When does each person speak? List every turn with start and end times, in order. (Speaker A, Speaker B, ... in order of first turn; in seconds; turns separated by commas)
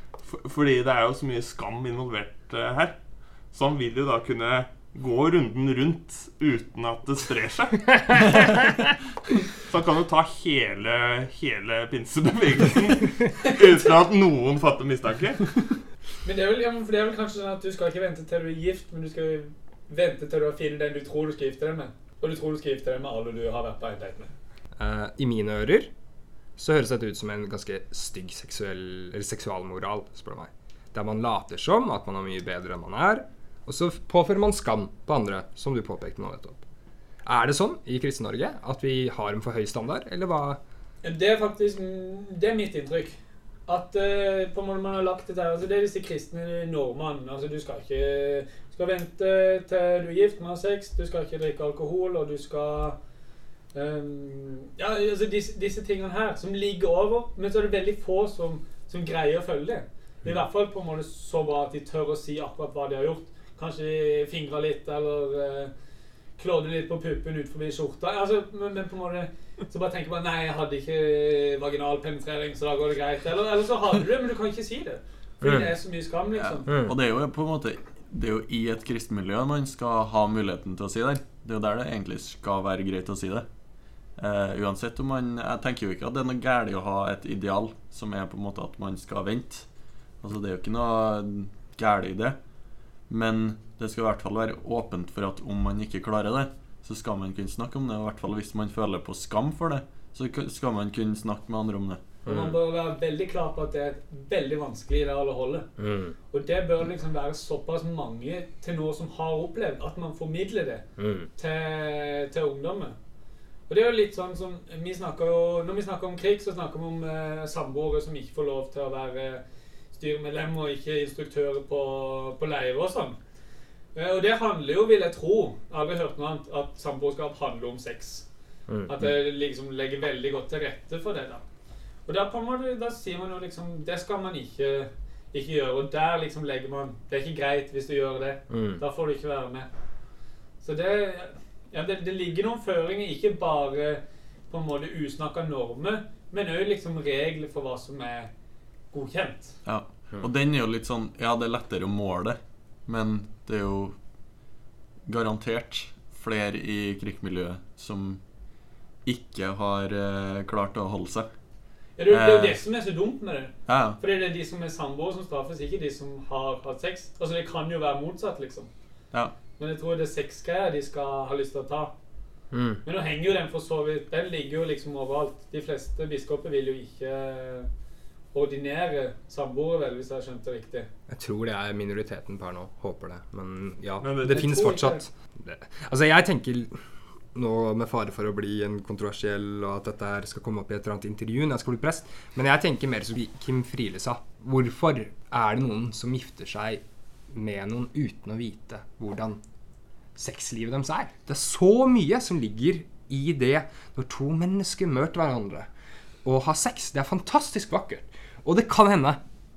Speaker A: 0.2-3.0, Speaker A: 3.5-8.6, Speaker A: 9.6-15.5, Speaker B: 16.2-24.3, Speaker C: 24.8-25.9, Speaker C: 26.6-36.6, Speaker C: 37.2-40.6, Speaker B: 41.0-53.0, Speaker B: 53.7-65.7, Speaker B: 66.4-76.7, Speaker C: 75.4-75.7, Speaker D: 76.4-83.5, Speaker C: 76.7-76.9, Speaker D: 84.2-89.7, Speaker D: 90.2-92.4, Speaker D: 93.1-102.0, Speaker C: 102.3-102.5, Speaker B: 102.3-105.7, Speaker C: 105.8-106.2, Speaker B: 106.3-110.8, Speaker C: 111.0-111.3, Speaker B: 111.4-112.9, Speaker B: 113.7-119.4, Speaker B: 119.9-123.2, Speaker B: 123.9-128.2, Speaker C: 128.7-129.0, Speaker B: 128.9-131.4, Speaker B: 132.1-139.7, Speaker C: 138.5-138.8, Speaker B: 140.6-148.3, Speaker B: 148.9-149.5, Speaker D: 149.6-153.9, Speaker D: 155.1-158.2, Speaker D: 159.1-161.3, Speaker B: 162.0-168.7, Speaker D: 162.1-162.6, Speaker D: 163.7-164.0, Speaker B: 169.6-171.9, Speaker C: 172.5-172.8, Speaker B: 172.8-177.7, Speaker B: 178.3-180.9, Speaker C: 181.1-186.8, Speaker A: 184.0-184.6, Speaker B: 184.2-185.0, Speaker C: 187.3-199.4, Speaker C: 200.2-205.7, Speaker C: 206.2-209.2